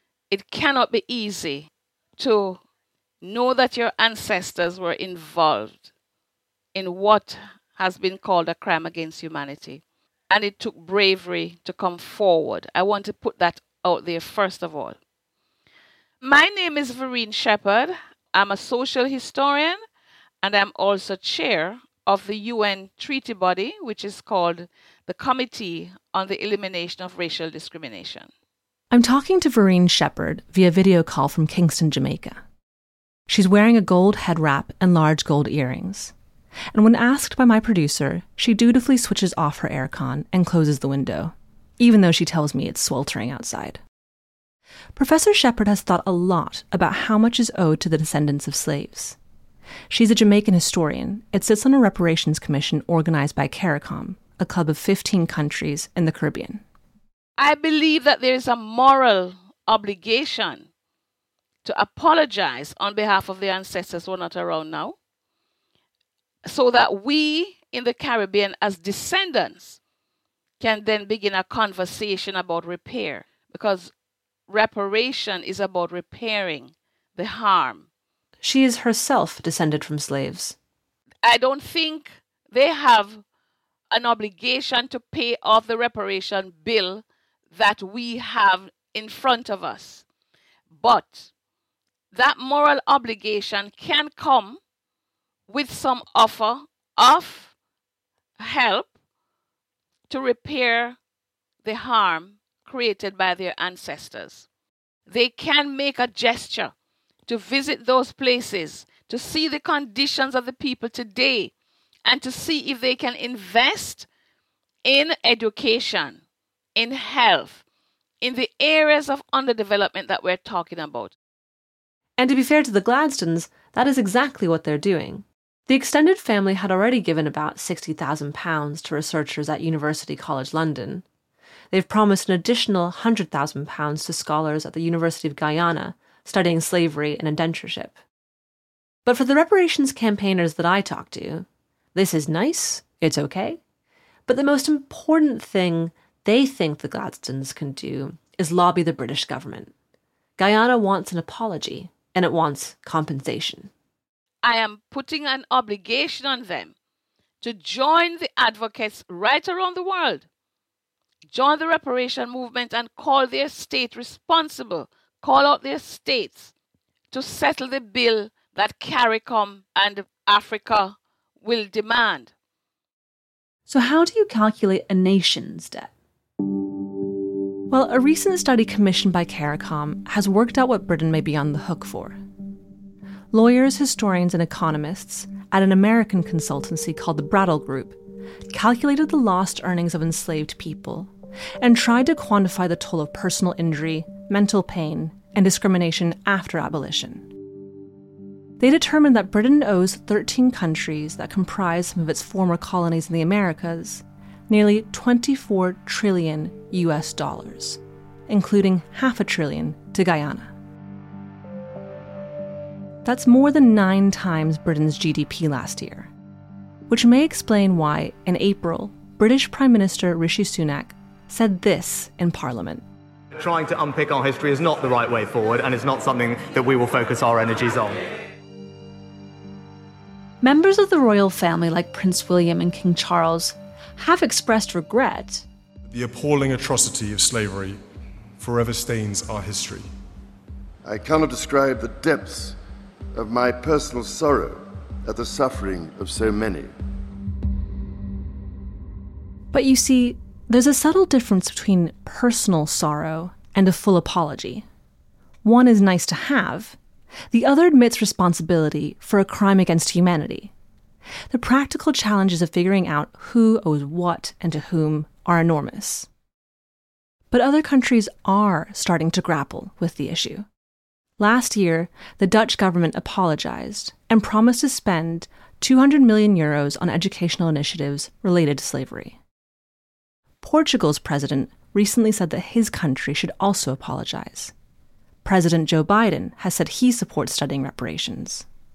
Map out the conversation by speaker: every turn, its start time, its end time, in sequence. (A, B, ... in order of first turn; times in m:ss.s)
0:00.3-0:02.6 A
0:03.2-0:05.9 A
0:06.7-0:15.0 A
0:16.2-0:19.8 A
0:20.4-0:28.3 A
0:28.9-0:32.4 B
0:33.3-0:36.1 B
0:36.7-0:43.8 B
0:45.0-0:49.2 B
0:49.9-0:56.6 B
0:57.4-1:00.7 A
1:01.6-1:05.0 A
1:06.4-1:09.8 A
1:10.6-1:13.9 A
1:14.5-1:17.9 A
1:18.4-1:20.6 B
1:21.2-1:23.2 A
1:23.9-1:30.0 A
1:30.8-1:31.3 A
1:32.1-1:34.6 A
1:35.5-1:37.5 A
1:38.4-1:38.9 A
1:40.1-1:41.0 A
1:41.6-1:44.5 A
1:45.1-1:46.7 A
1:47.3-1:51.5 A
1:52.0-1:54.1 A
1:54.8-1:56.2 A
1:56.8-1:57.6 A
1:58.2-2:01.1 A
2:02.2-2:11.0 B
2:11.7-2:18.0 B
2:19.0-2:23.6 B
2:24.3-2:29.7 B
2:30.4-2:33.7 B
2:34.4-2:36.7 A
2:37.4-2:40.2 A
2:41.3-2:46.5 A
2:47.1-2:52.3 A
2:53.7-2:55.9 B
2:57.7-3:02.2 B
3:03.3-3:08.0 B
3:08.5-3:17.3 B
3:18.6-3:30.5 B
3:33.0-3:36.1 B
3:36.9-3:42.8 B
3:43.3-3:48.1 C
3:50.4-3:55.5 B
3:55.9-3:57.8 D
3:58.4-3:59.9 D
4:00.8-4:02.6 E
4:03.2-4:06.7 E
4:09.5-4:14.6 B
4:15.4-4:16.8 B
4:17.3-4:20.5 B
4:21.3-4:26.1 B
4:27.3-4:30.5 B
4:31.2-4:39.2 B
4:40.4-4:44.5 B
4:45.2-4:48.5 B